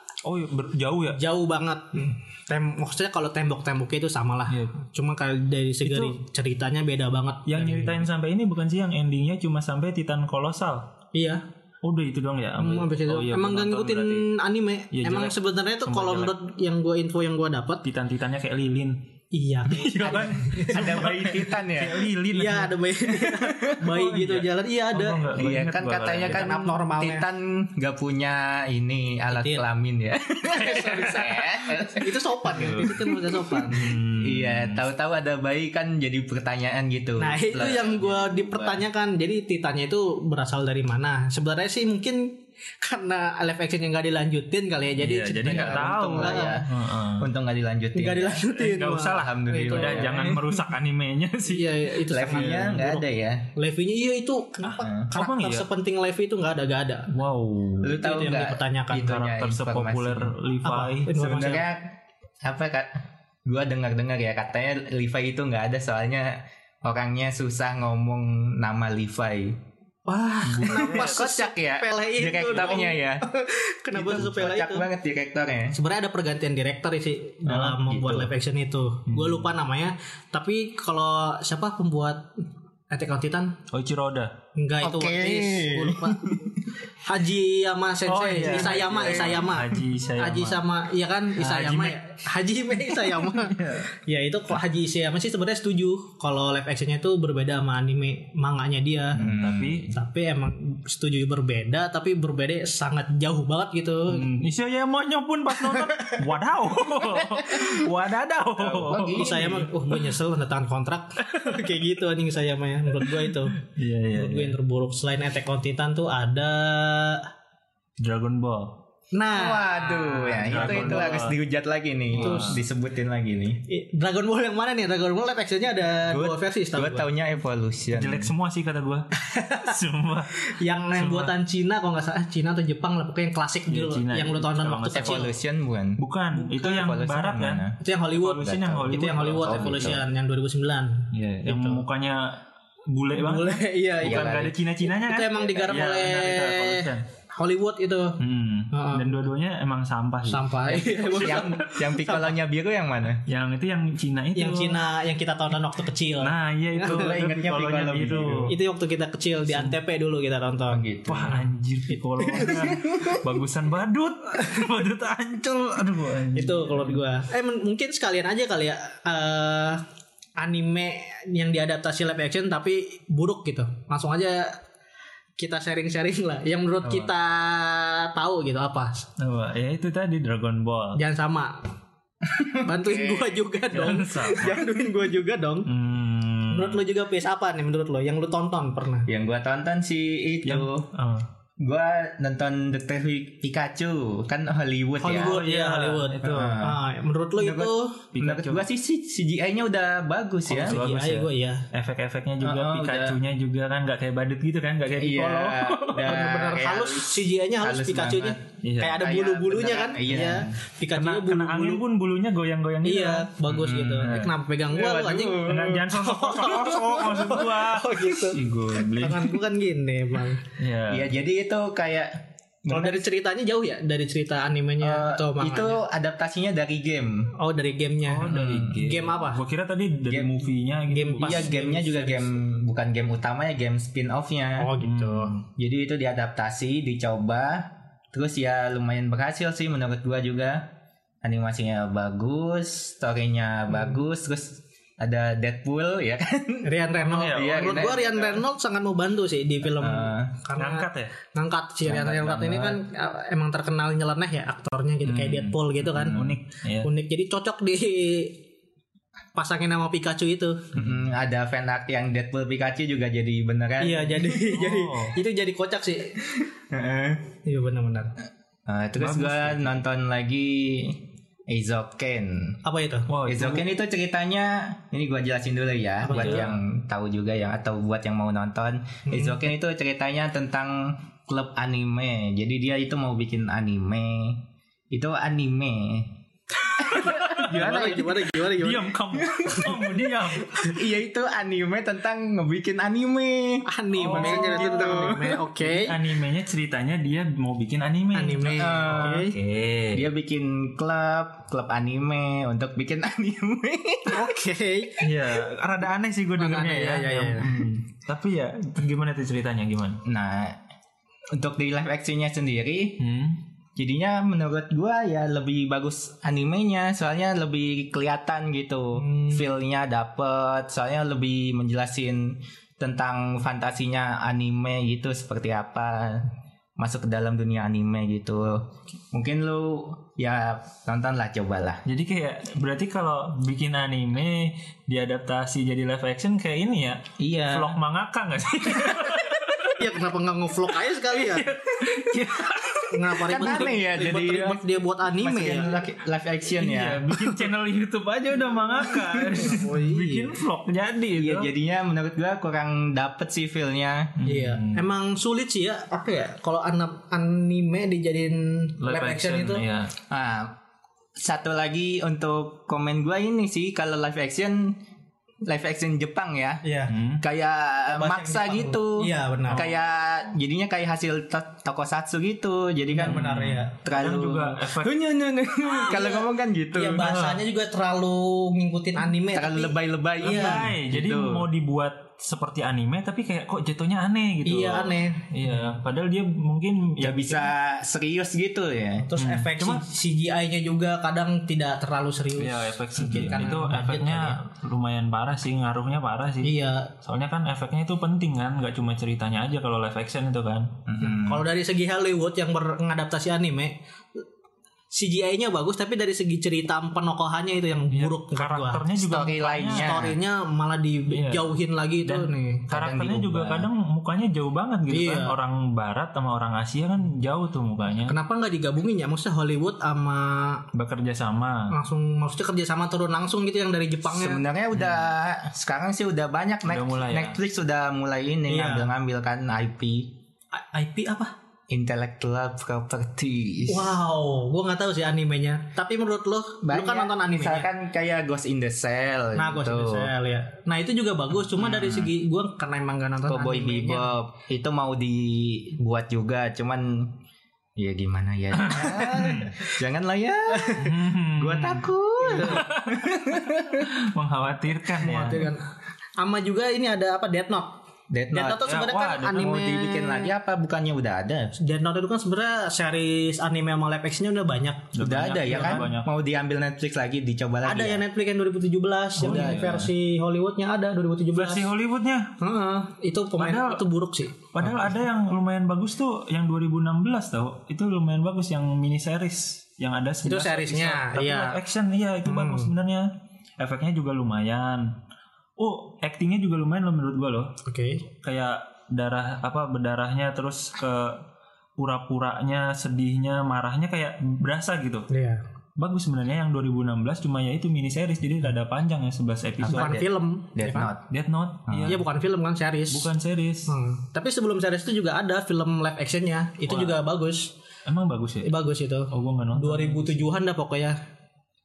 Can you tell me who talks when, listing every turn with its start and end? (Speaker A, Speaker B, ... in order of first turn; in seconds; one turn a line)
Speaker A: 0.2-1.2
Speaker B: 1.1-8.1
Speaker A: 5.9-6.2
Speaker A: 7.5-10.9
Speaker B: 11.1-11.4
Speaker A: 11.8-14.3
Speaker B: 12.6-17.9
Speaker A: 14.9-16.4
Speaker A: 17.8-19.0
Speaker B: 19.3-21.1
Speaker A: 19.7-22.9
Speaker C: 20.1-22.1
Speaker B: 22.3-25.3
Speaker C: 23.4-23.7
Speaker A: 23.8-26.5
Speaker C: 25.3-32.9
Speaker B: 26.2-27.2
Speaker B: 29.3-29.6
Speaker B: 30.5-33.9
Speaker A: 30.8-31.3
Speaker A: 32.5-34.9
Speaker C: 33.7-38.9
Speaker B: 37.2-46.6
Speaker A: 45.0-47.3
Speaker C: 45.4-48.5
Speaker B: 48.0-50.3
Speaker A: 48.6-52.9
Speaker C: 49.0-50.6
Speaker B: 51.5-57.1
Speaker C: 52.1-53.5
Speaker C: 54.8-55.1
Speaker A: 55.1-55.7
Speaker A: 57.1-58.0
Speaker C: 57.8-60.3
Speaker B: 57.9-59.2
Speaker A: 59.0-61.2
Speaker B: 60.6-61.7
Speaker C: 61.1-69.6
Speaker B: 70.1-74.9
Speaker A: 70.5-71.2
Speaker C: 70.6-73.2
Speaker C: 73.9-75.8
Speaker B: 75.7-82.3
Speaker A: 77.5-77.8
Speaker C: 77.9-78.3
Speaker A: 79.1-79.5
Speaker B: 82.9-83.6
Speaker A: 83.7-84.3
Speaker B: 84.5-99.2
Speaker C: 84.8-86.6
Speaker A: 88.1-90.7
Speaker C: 88.4-89.6
Speaker A: 91.4-92.0
Speaker A: 93.1-93.8
Speaker C: 99.2-99.9
Speaker A: 99.2-99.9
Speaker B: 99.9-104.3
Speaker A: 104.1-109.4
Speaker C: 108.6-109.7
Speaker B: 109.1-113.6
Speaker A: 111.3-111.6
Speaker A: 113.2-114.5
Speaker B: 114.1-117.3
Speaker A: 118.0-118.8
Speaker B: 119.1-121.2
Speaker C: 119.3-123.6
Speaker A: 120.5-121.4
Speaker A: 122.2-122.6
Speaker B: 122.2-122.6
Speaker B: 123.7-127.1
Speaker C: 126.1-128.3
Speaker A: 127.9-131.3
Speaker B: 129.2-129.8
Speaker B: 130.4-135.3
Speaker A: 133.7-135.3
Speaker C: 134.9-137.8
Speaker A: 136.0-140.0
Speaker B: 137.8-141.8
Speaker C: 138.4-140.0
Speaker A: 141.1-147.1
Speaker B: 143.2-148.2
Speaker C: 144.0-144.6
Speaker A: 148.2-151.6
Speaker B: 148.7-149.3
Speaker B: 150.3-152.3
Speaker C: 151.1-153.2
Speaker A: 153.3-154.8
Speaker B: 154.4-157.1
Speaker A: 156.2-158.5
Speaker C: 156.8-158.5
Speaker B: 158.5-160.9
Speaker A: 159.5-159.8
Speaker C: 160.7-161.4
Speaker A: 161.1-167.0
Speaker B: 162.2-163.2
Speaker B: 166.3-169.8
Speaker B: 170.4-174.6
Speaker B: 175.4-179.1
Speaker A: 176.8-177.1
Speaker A: 179.2-181.0
Speaker B: 181.0-181.7
Speaker C: 182.3-183.4
Speaker B: 182.6-185.7
Speaker A: 183.7-184.6
Speaker A: 185.7-186.8
Speaker B: 186.5-189.1
Speaker C: 189.1-190.9
Speaker A: 190.4-191.3
Speaker C: 191.6-195.4
Speaker B: 195.0-198.0
Speaker A: 195.1-196.6
Speaker C: 196.2-196.8
Speaker C: 197.4-200.8
Speaker A: 198.1-198.7
Speaker A: 200.5-206.2
Speaker B: 200.5-201.7
Speaker C: 202.4-203.2
Speaker C: 205.0-210.6
Speaker B: 206.0-211.8
Speaker A: 208.6-209.0
Speaker A: 210.9-213.3
Speaker B: 212.8-220.4
Speaker C: 213.5-215.9
Speaker A: 214.0-214.3
Speaker A: 215.4-219.4
Speaker A: 220.6-221.1
Speaker C: 220.9-223.1
Speaker B: 222.7-225.8
Speaker C: 224.8-227.3
Speaker B: 227.4-229.4
Speaker A: 228.1-231.5
Speaker C: 228.3-228.7
Speaker C: 230.1-230.4
Speaker B: 230.9-232.3
Speaker C: 231.2-234.7
Speaker B: 234.6-235.3
Speaker A: 234.8-235.4
Speaker C: 235.6-240.7
Speaker C: 241.2-246.7
Speaker B: 246.6-256.2
Speaker A: 247.1-247.8
Speaker C: 247.2-248.4
Speaker C: 249.7-250.3
Speaker A: 250.6-251.1
Speaker C: 251.9-252.8
Speaker C: 255.1-256.4
Speaker A: 256.1-256.9
Speaker B: 256.8-258.4
Speaker B: 259.4-260.7
Speaker C: 260.7-264.5
Speaker B: 263.8-266.3
Speaker A: 264.5-265.2
Speaker C: 266.3-267.2
Speaker B: 267.4-268.1
Speaker C: 268.7-272.6
Speaker A: 269.0-269.8
Speaker B: 272.6-273.1
Speaker A: 273.1-273.7
Speaker C: 273.3-286.1
Speaker B: 276.0-276.5
Speaker A: 276.1-276.5
Speaker B: 279.1-279.3
Speaker B: 286.7-288.9
Speaker C: 286.8-288.1
Speaker A: 286.9-290.8
Speaker C: 289.4-289.8
Speaker C: 290.6-295.4
Speaker B: 293.6-296.0
Speaker A: 294.0-300.1
Speaker B: 298.1-299.4
Speaker C: 298.4-299.3
Speaker C: 299.9-304.3
Speaker B: 304.1-305.1
Speaker A: 305.0-310.0
Speaker B: 306.4-307.6
Speaker C: 310.1-310.6
Speaker C: 311.3-313.0
Speaker A: 313.0-313.4
Speaker C: 313.8-326.3
Speaker B: 319.0-319.4
Speaker C: 326.8-331.8
Speaker A: 331.9-339.9
Speaker C: 337.2-337.7
Speaker B: 339.8-341.5
Speaker A: 340.8-343.6
Speaker B: 342.9-345.8
Speaker C: 343.3-347.3
Speaker A: 346.6-351.5
Speaker B: 349.2-350.4
Speaker C: 351.1-354.2
Speaker A: 354.2-354.9
Speaker B: 354.2-359.6
Speaker A: 358.8-359.9
Speaker C: 360.1-360.6
Speaker C: 361.2-364.8
Speaker C: 365.4-366.6
Speaker B: 366.6-366.9
Speaker A: 366.9-367.2
Speaker C: 367.2-377.1
Speaker B: 367.9-369.7
Speaker A: 369.5-369.8
Speaker B: 372.9-373.7
Speaker A: 373.0-374.9
Speaker B: 375.7-380.7
Speaker A: 377.0-377.4
Speaker C: 379.3-381.5
Speaker A: 380.2-387.4
Speaker B: 384.4-385.3
Speaker C: 387.0-389.1
Speaker B: 389.0-394.4
Speaker A: 389.2-389.8
Speaker A: 392.4-400.7
Speaker B: 396.4-396.9
Speaker C: 400.9-401.4
Speaker B: 401.0-403.8
Speaker B: 404.9-408.9
Speaker A: 407.9-410.1
Speaker C: 409.0-410.2
Speaker B: 409.7-412.7
Speaker A: 411.1-411.4
Speaker A: 412.0-418.2
Speaker C: 412.7-413.7
Speaker B: 414.9-415.4
Speaker B: 418.1-420.6
Speaker A: 420.7-421.7
Speaker B: 421.7-424.4
Speaker C: 424.1-430.1
Speaker A: 424.8-425.0
Speaker A: 426.7-427.4
Speaker B: 428.5-428.9
Speaker B: 430.6-431.3
Speaker C: 431.7-434.0
Speaker B: 433.7-437.7
Speaker C: 436.6-440.1
Speaker B: 439.4-444.1
Speaker C: 441.6-442.1
Speaker C: 443.3-447.1
Speaker C: 447.8-453.9
Speaker A: 448.6-449.6
Speaker B: 448.7-449.4
Speaker A: 450.8-455.5
Speaker B: 452.2-452.7
Speaker B: 455.0-455.7
Speaker B: 456.2-457.8
Speaker C: 458.1-458.7
Speaker B: 458.3-460.3
Speaker A: 458.6-459.6
Speaker C: 459.4-461.5
Speaker B: 461.6-464.9
Speaker A: 464.9-466.1
Speaker C: 465.0-468.0
Speaker B: 465.5-465.8
Speaker B: 467.6-471.7
Speaker C: 469.2-469.9
Speaker A: 469.2-469.9
Speaker A: 471.3-472.4
Speaker B: 472.4-474.4
Speaker A: 473.4-473.8
Speaker A: 474.5-485.0
Speaker B: 480.2-481.6
Speaker B: 482.2-482.7
Speaker A: 485.6-487.6
Speaker B: 487.6-488.0
Speaker A: 488.2-491.2
Speaker A: 491.8-495.1
Speaker B: 495.1-495.4
Speaker A: 495.8-500.1
Speaker C: 499.6-501.0
Speaker B: 499.7-500.9
Speaker A: 501.0-502.0
Speaker C: 501.7-502.0
Speaker B: 501.9-503.1
Speaker A: 502.9-503.7
Speaker B: 503.7-507.5
Speaker A: 506.7-507.0
Speaker A: 507.9-508.5
Speaker B: 508.4-511.0
Speaker A: 509.1-510.3